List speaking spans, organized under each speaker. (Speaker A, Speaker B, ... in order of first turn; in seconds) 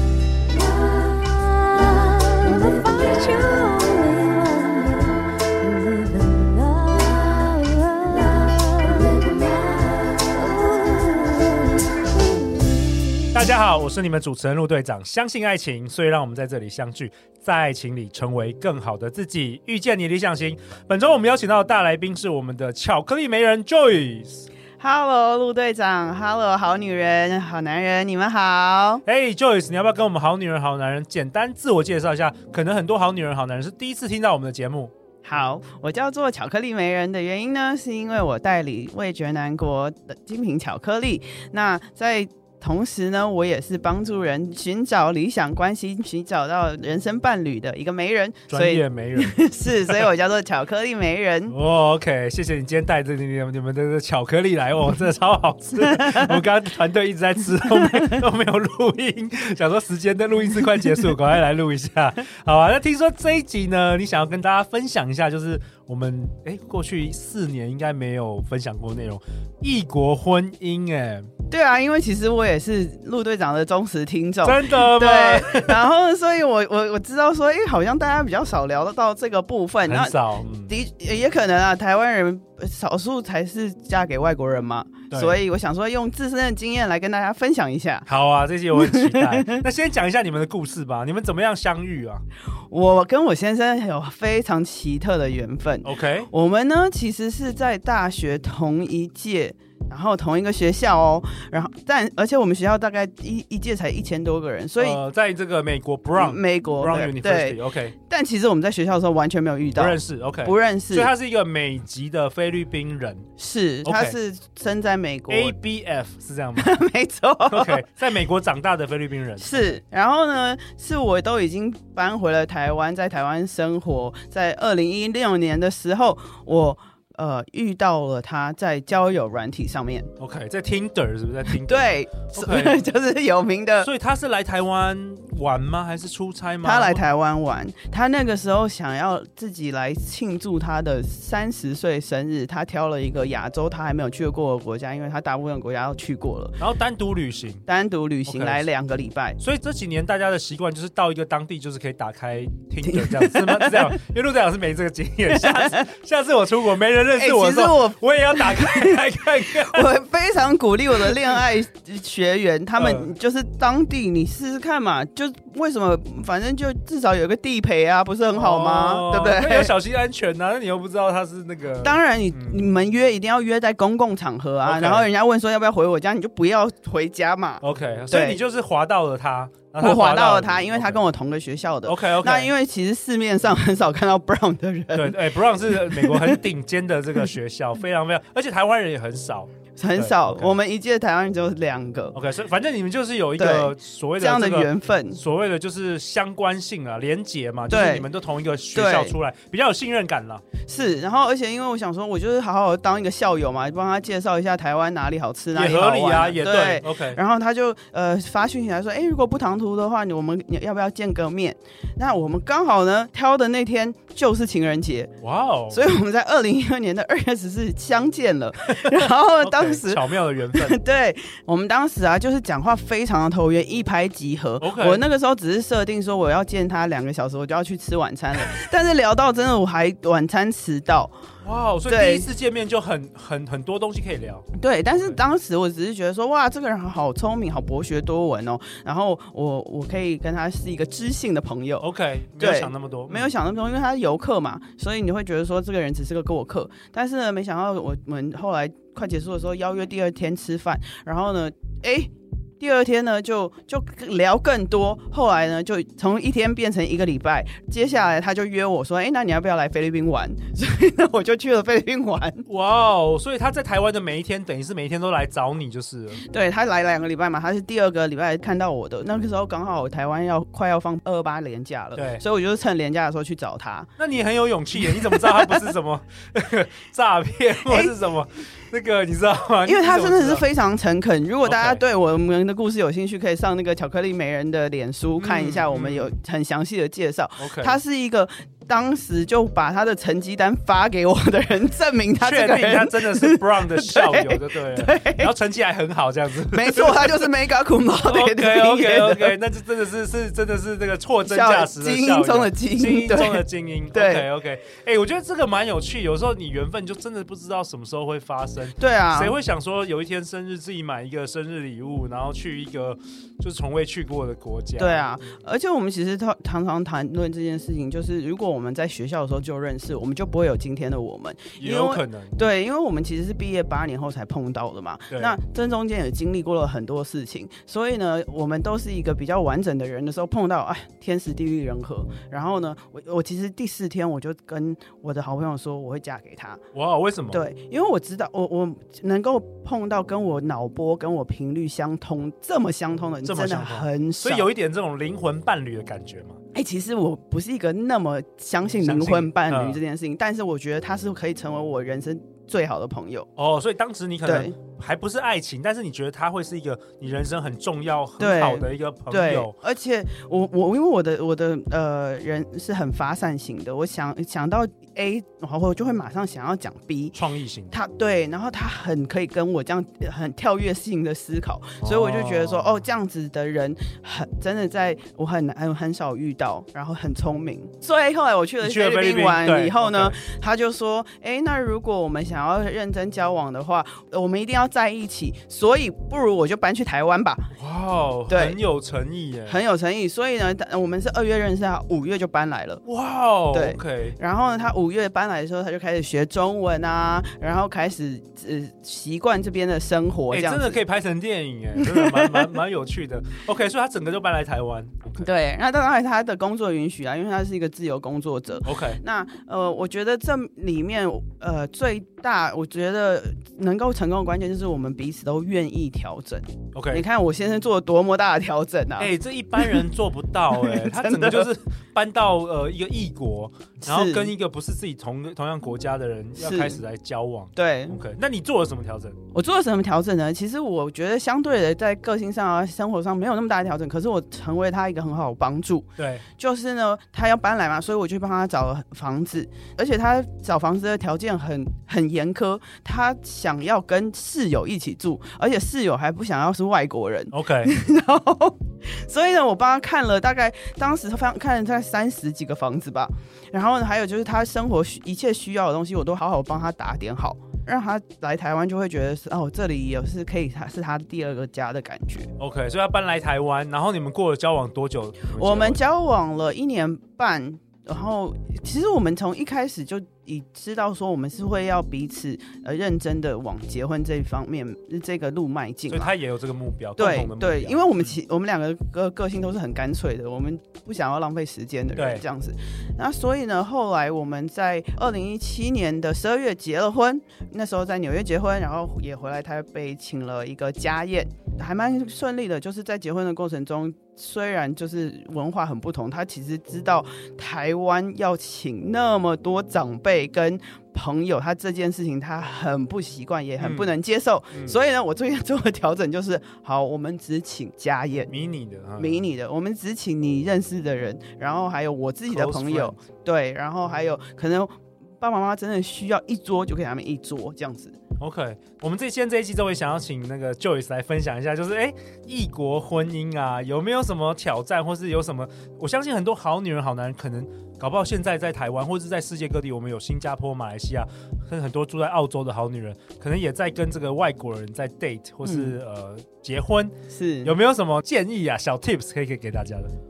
Speaker A: 0.6-13.1
Speaker B: 13.3-24.5, 29.1-34.9, 48.5-49.4, 51.5-71.3, 74.4-75.8, 79.9-80.7, 85.1-85.4, 88.1-92.2, 95.8-96.3, 104.8-108.0, 109.8-113.3, 113.8-114.2, 115.3-116.7, 117.5-119.8, 130.2-132.8, 133.8-137.0, 146.6-147.7, 148.3-148.7, 149.4-159.9, 162.8-163.1, 168.3-172.6, 174.7-175.1, 177.6-181.1, 181.8-182.5, 184.9-190.5, 192.1-200.4, 205.6-207.2, 215.2-215.8, 218.7-220.8, 224.6-225.0, 231.4-235.2, 241.8-243.3, 262.5-266.2, 271.9-272.2, 274.0-280.5, 281.4-281.8, 285.2-286.1, 287.4-287.8, 292.2-297.3, 298.0-315.1, 321.6-322.4, 325.1-325.4, 336.7-337.4, 343.2-346.4, 348.8-349.8, 353.4-359.5, 367.1-367.8, 371.8-372.8, 378.6-380.2, 387.6-389.6, 392.9-394.2, 400.3-405.3, 408.7-409.0, 416.7-417.0, 419.0-429.2, 436.0-436.2, 447.3-447.7, 462.4-465.8, 475.9-478.1, 482.0-482.2, 503.6-503.9, 508.3-509.2, 512.3-513.0, 518.2-539.9
Speaker C: 24.8-29.0, 35.2-51.5, 55.8-56.4, 57.7-58.1, 71.5-80.2, 80.7-88.1, 88.7-89.6, 92.7-105.0, 106.2-111.1, 113.4-115.5, 116.6-117.8, 119.4-130.1, 131.5-133.9, 136.6-146.6, 147.7-149.4, 152.8-154.0, 155.3-155.9, 157.1-169.8, 171.8-178.4, 179.8-186.4, 189.8-192.2, 193.4-195.2, 197.7-198.1, 198.8-199.2, 200.7-215.1, 215.7-220.0, 220.5-231.2, 231.9-232.3, 234.6-241.9, 242.4-262.5, 266.2-273.9, 274.8-275.7, 277.6-277.9, 279.6-295.3, 296.5-299.4, 301.3-304.3, 308.8-309.4, 314.8-336.6, 337.3-344.5, 346.5-353.3, 354.2-354.6, 358.2-367.2, 367.7-387.5, 388.3-388.6, 389.5-392.8, 393.5-400.8, 401.8-402.5, 405.2-419.9, 420.5-421.5, 423.8-424.3, 426.4-426.8, 427.6-428.0, 429.3-435.9, 436.4-462.3, 465.3-476.1, 477.0-508.3, 509.0-518.0, 535.4-535.8, 537.1-537.6